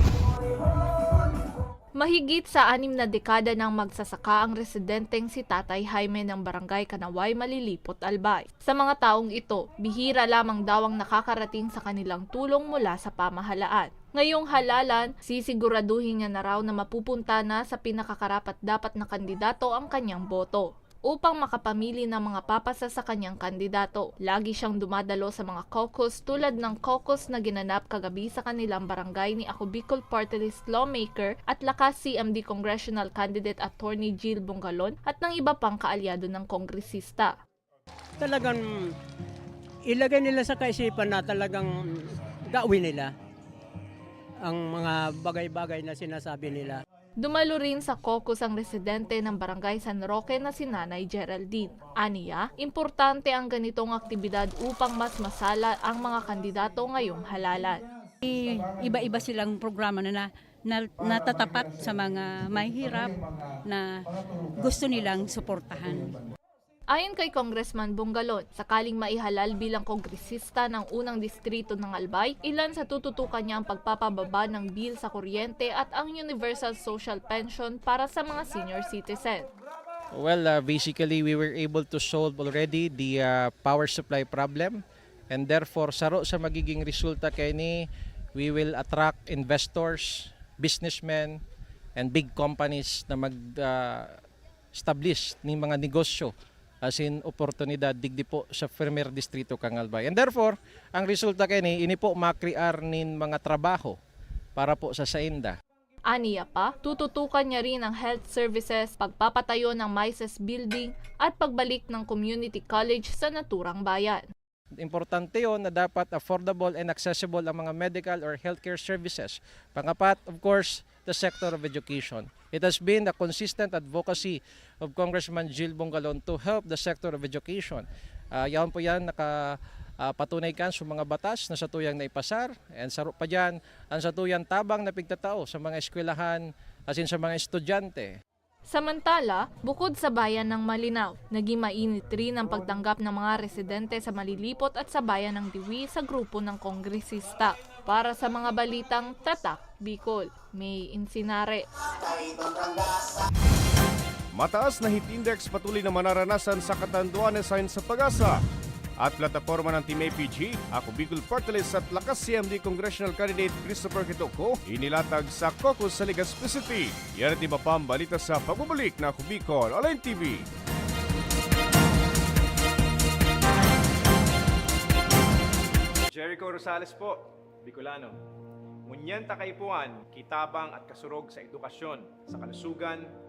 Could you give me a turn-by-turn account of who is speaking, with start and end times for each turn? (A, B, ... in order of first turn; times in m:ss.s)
0:02.0-0:37.4 A
0:38.2-0:38.7 B
0:39.9-0:43.1 B
0:44.5-0:46.8 B
0:47.2-0:57.8 A
0:58.2-1:03.9 C
1:04.6-1:06.2 C
1:06.9-1:19.5 A
1:20.1-1:27.8 D
1:28.4-1:31.4 D
1:32.0-1:34.2 D
1:34.8-1:36.3 D
1:36.8-1:44.0 D
1:44.6-1:45.6 D
1:46.1-1:54.3 A
1:54.8-2:18.1 D
2:18.7-2:31.7 A
2:34.4-2:38.4 E
2:39.0-2:50.5 E
2:56.1-2:58.2 F
2:58.9-3:03.1 F